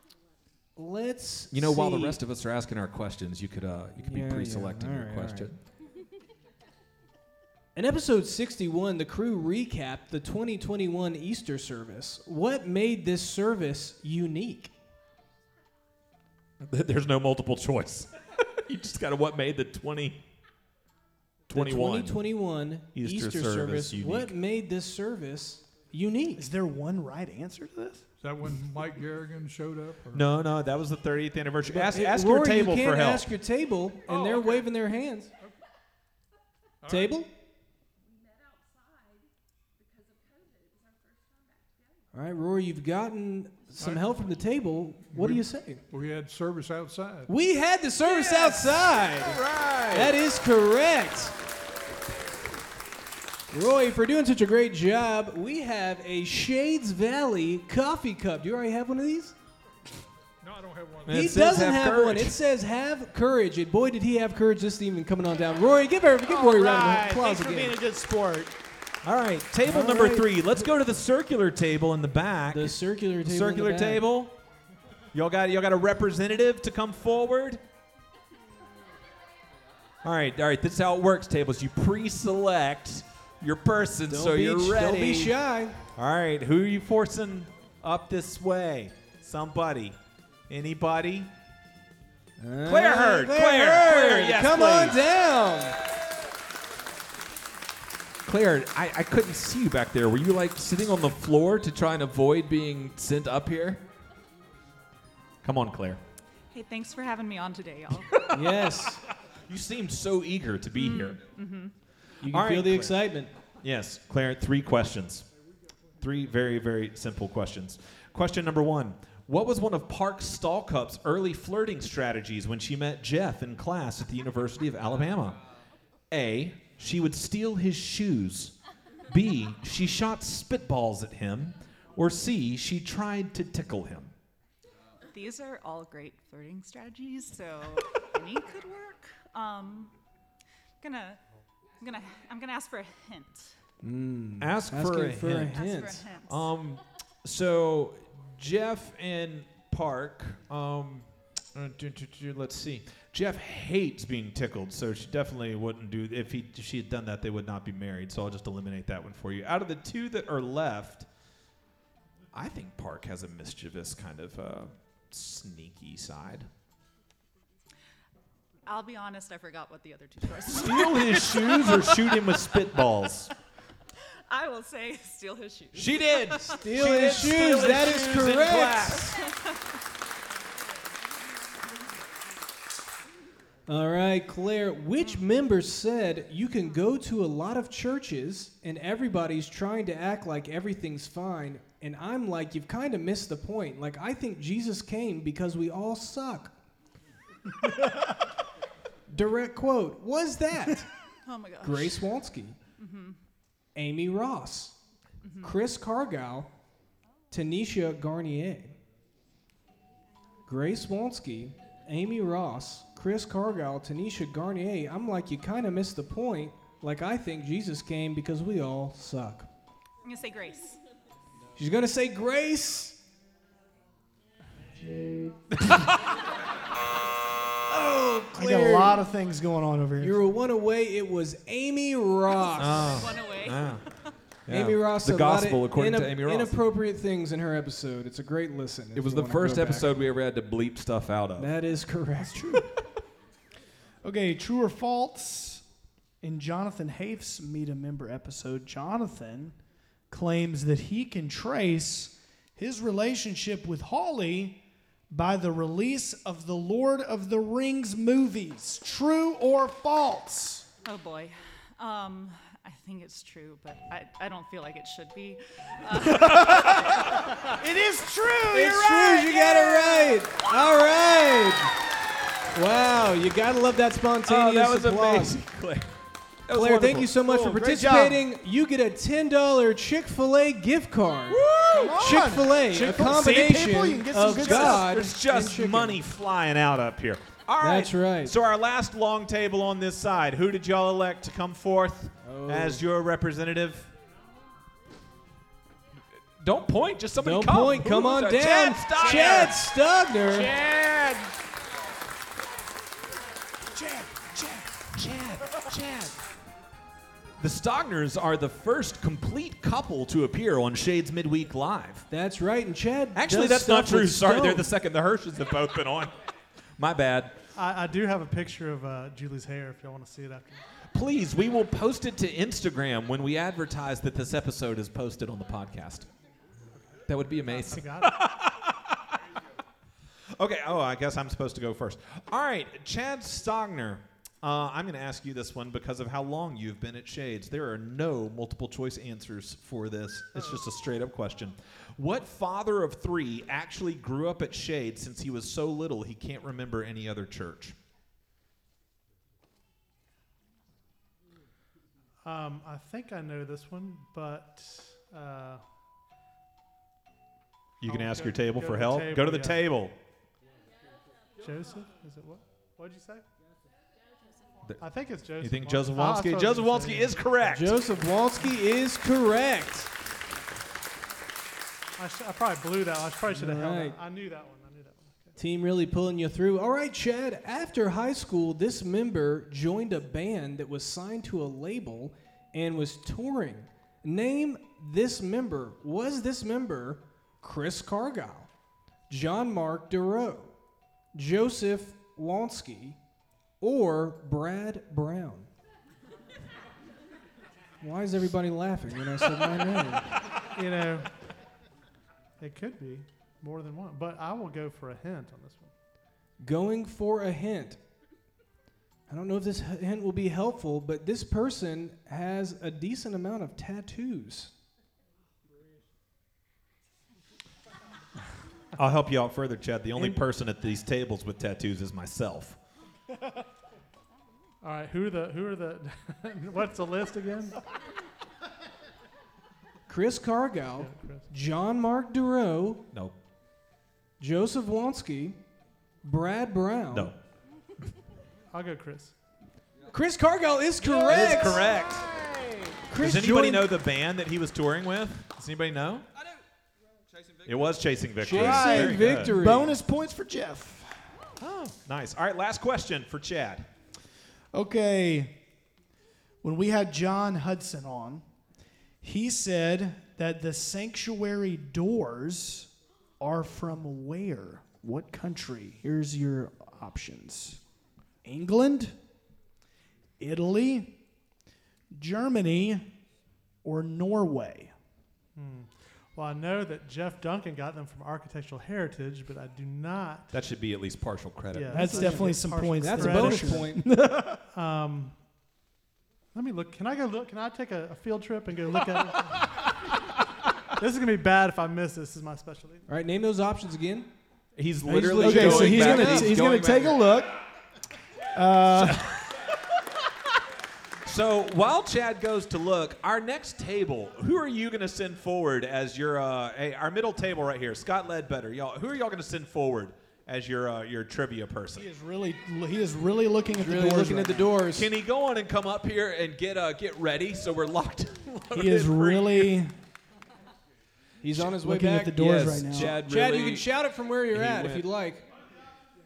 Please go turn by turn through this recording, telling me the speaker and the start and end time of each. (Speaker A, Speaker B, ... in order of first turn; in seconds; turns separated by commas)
Speaker A: 0.8-2.2, Speaker B: 1.5-5.6, Speaker A: 4.0-5.5, Speaker A: 7.8-14.7, Speaker B: 16.6-20.2, Speaker B: 21.5-22.2, Speaker A: 21.5-26.5, Speaker B: 22.9-24.3, Speaker C: 26.4-28.0, Speaker D: 28.2-30.3, Speaker B: 30.1-33.3, Speaker A: 31.7-35.3, Speaker D: 34.1-34.7, Speaker D: 36.9-37.2, Speaker A: 36.9-37.3, Speaker A: 42.1-45.8, Speaker D: 43.8-44.2, Speaker D: 45.1-47.3, Speaker A: 47.3-51.3, Speaker B: 48.0-50.2, Speaker A: 53.5-59.4, Speaker D: 60.4-61.3, Speaker B: 61.1-62.4, Speaker A: 61.1-67.8, Speaker C: 66.3-68.5, Speaker B: 69.0-74.3, Speaker A: 69.6-70.7, Speaker A: 72.5-74.0, Speaker B: 75.1-77.6, Speaker B: 80.0-85.4, Speaker A: 84.1-85.8, Speaker B: 86.0-90.0, Speaker B: 90.5-91.3, Speaker A: 92.4-95.8, Speaker B: 92.7-95.0, Speaker B: 98.3-103.8, Speaker B: 105.4-106.0, Speaker E: 106.5-108.2, Speaker A: 108.3-109.0, Speaker B: 109.5-111.2, Speaker E: 110.7-111.7, Speaker A: 112.2-113.3, Speaker B: 112.3-113.0, Speaker B: 113.6-115.3, Speaker B: 116.0-125.4, Speaker B: 126.1-128.5, Speaker B: 129.1-134.1, Speaker E: 135.1-139.9, Speaker E: 140.8-141.2, Speaker E: 141.8-143.5, Speaker A: 143.8-146.1, Speaker B: 144.4-145.6, Speaker E: 145.5-146.4, Speaker B: 146.2-161.1, Speaker B: 162.3-166.5, Speaker E: 168.7-172.2, Speaker B: 170.5-173.3, Speaker E: 174.3-176.6, Speaker B: 175.8-179.2, Speaker A: 176.5-179.1, Speaker A: 183.7-196.5, Speaker A: 199.1-200.9, Speaker E: 201.3-202.1, Speaker A: 201.6-202.6, Speaker E: 202.8-203.2, Speaker A: 203.8-204.8, Speaker E: 205.2-205.5, Speaker A: 205.4-206.5, Speaker A: 207.3-208.8, Speaker A: 210.5-219.5, Speaker E: 220.1-220.8, Speaker A: 221.6-223.0, Speaker B: 225.6-225.9, Speaker A: 227.7-229.0, Speaker C: 228.3-230.2, Speaker A: 230.0-233.0, Speaker B: 232.6-233.8, Speaker E: 232.9-233.8, Speaker B: 234.5-236.6, Speaker A: 234.5-239.9, Speaker B: 238.9-241.5, Speaker A: 241.4-242.6, Speaker C: 242.2-242.7, Speaker C: 244.0-245.6, Speaker C: 246.2-249.6, Speaker C: 250.1-254.6, Speaker C: 255.1-260.7, Speaker E: 260.9-267.1, Speaker C: 266.1-270.1, Speaker A: 268.5-271.7, Speaker A: 272.6-275.4, Speaker B: 274.3-275.9, Speaker B: 276.5-277.2, Speaker A: 276.5-281.4, Speaker C: 277.3-278.2, Speaker B: 281.3-282.4, Speaker C: 281.7-285.1, Speaker A: 281.9-286.0, Speaker B: 284.3-293.9, Speaker A: 287.6-288.4, Speaker A: 292.2-292.8, Speaker B: 296.4-299.6, Speaker A: 297.2-300.5, Speaker B: 300.3-301.3, Speaker C: 303.9-304.4, Speaker B: 304.9-306.1, Speaker B: 307.4-312.1, Speaker A: 312.1-314.7, Speaker B: 313.1-316.1, Speaker B: 316.8-317.4, Speaker F: 317.6-320.6, Speaker B: 320.9-326.1, Speaker B: 327.1-329.0, Speaker F: 327.5-328.1, Speaker B: 330.4-347.8, Speaker F: 352.2-355.6, Speaker B: 357.8-359.9, Speaker F: 357.8-359.6, Speaker F: 361.4-363.2, Speaker F: 364.8-367.3, Speaker B: 365.4-367.8, Speaker A: 367.4-369.9, Speaker F: 372.0-375.4, Speaker A: 373.3-374.0, Speaker A: 375.4-388.5, Speaker A: 389.1-390.5, Speaker A: 391.1-393.0, Speaker A: 393.6-395.5, Speaker A: 397.8-400.1, Speaker F: 400.5-401.1, Speaker F: 402.4-405.7, Speaker A: 406.4-407.8, Speaker A: 409.1-414.5, Speaker B: 418.8-422.6, Speaker F: 424.6-427.6, Speaker A: 429.9-432.8, Speaker F: 430.8-431.3, Speaker A: 434.2-435.4, Speaker A: 436.0-437.1, Speaker F: 438.5-439.1, Speaker A: 439.9-441.7, Speaker B: 441.0-442.2, Speaker A: 442.9-443.7, Speaker B: 443.0-446.1, Speaker B: 447.5-449.4, Speaker A: 448.2-449.8, Speaker C: 448.3-451.0, Speaker B: 451.4-453.7, Speaker C: 454.5-455.3, Speaker C: 456.4-458.2, Speaker C: 459.0-467.6, Speaker C: 468.2-469.0, Speaker C: 470.2-470.9, Speaker C: 471.9-472.9, Speaker C: 473.6-474.7, Speaker F: 475.4-480.4, Speaker B: 480.3-482.3, Speaker F: 481.5-483.8, Speaker C: 481.7-484.4, Speaker A: 481.7-483.8, Speaker F: 484.5-485.1, Speaker F: 486.3-489.6, Speaker F: 490.8-492.9, Speaker A: 492.9-494.1, Speaker B: 494.6-497.0, Speaker A: 494.8-496.4, Speaker C: 495.2-497.3, Speaker C: 498.3-499.1, Speaker B: 498.8-499.1, Speaker B: 501.1-511.9, Speaker C: 511.8-514.5, Speaker A: 513.6-514.9, Speaker B: 514.7-519.5, Speaker C: 518.5-519.7, Speaker A: 521.2-525.2, Speaker C: 521.4-523.0, Speaker B: 522.2-523.7, Speaker B: 524.3-524.9